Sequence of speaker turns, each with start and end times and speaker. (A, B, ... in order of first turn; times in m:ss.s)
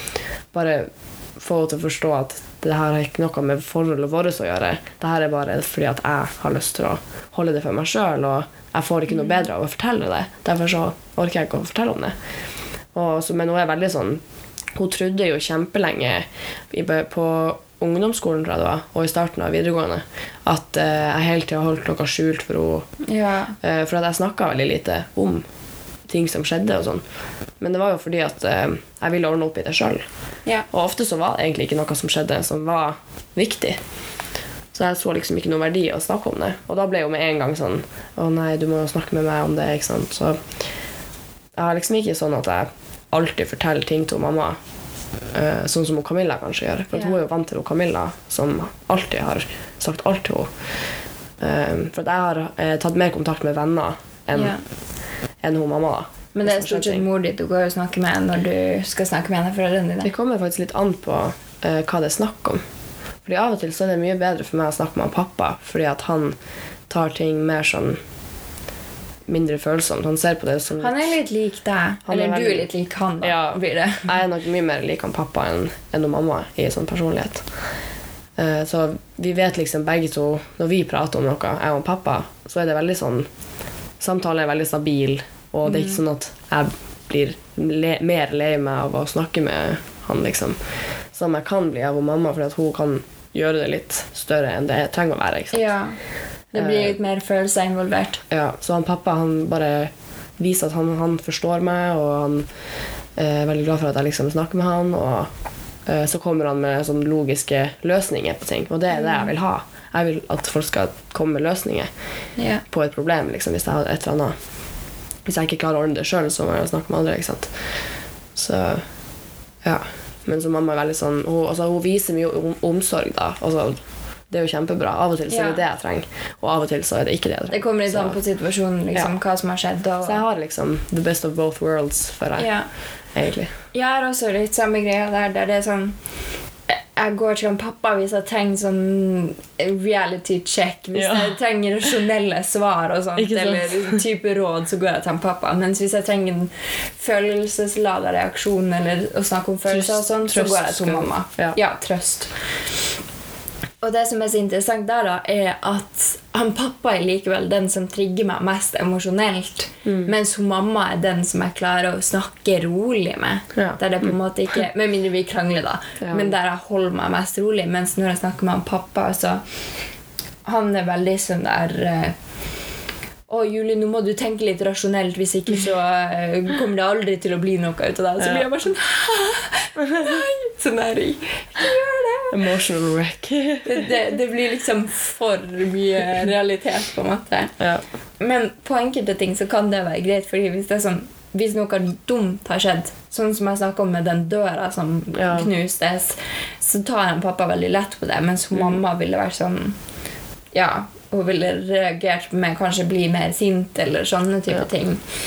0:00.5-0:12.1 A
0:12.9-0:14.2 A
0:14.7-0:23.0 A
0:23.0-0:23.6 B
0:23.6-0:25.5 A
0:26.0-0:27.1 A
0:27.6-0:30.0 A
0:30.7-0:33.8 A
0:34.7-0:40.5 A
0:41.5-0:44.6 A
0:45.2-0:50.6 A
0:51.4-0:57.0 A
0:54.3-0:54.6 B
0:56.3-1:00.1 B
1:00.0-1:02.6 A
1:03.2-1:06.4 A
1:06.9-1:08.0 A
1:09.3-1:11.1 A
1:10.8-1:14.1 B
1:12.0-1:12.7 A
1:13.2-1:17.6 A
1:18.4-1:23.3 A
1:24.0-1:35.7 A
1:25.6-1:26.0 B
1:35.5-1:36.0 B
1:36.5-1:38.2 B
1:36.5-1:37.0 A
1:38.3-1:42.6 A
1:43.1-1:51.9 A
1:48.9-1:49.3 B
1:52.4-1:52.6 B
1:52.6-1:54.5 A
1:55.2-1:57.8 A
1:58.3-1:58.8 A
1:59.6-2:08.2 A
2:05.3-2:05.6 B
2:07.5-2:10.2 B
2:10.0-2:13.5 A
2:12.4-2:12.7 B
2:13.7-2:32.6 B
2:20.9-2:21.4 A
2:23.2-2:24.0 A
2:29.7-2:31.6 A
2:33.8-2:49.6 B
2:39.8-2:40.1 A
2:43.5-2:44.1 A
2:46.0-2:46.3 A
2:50.4-2:52.2 B
2:53.3-3:02.4 B
2:58.2-2:58.4 A
3:02.3-3:03.9 A
3:03.6-3:07.6 B
3:07.6-3:07.8 A
3:08.2-3:19.8 B
3:15.1-3:15.5 A
3:20.5-3:25.0 B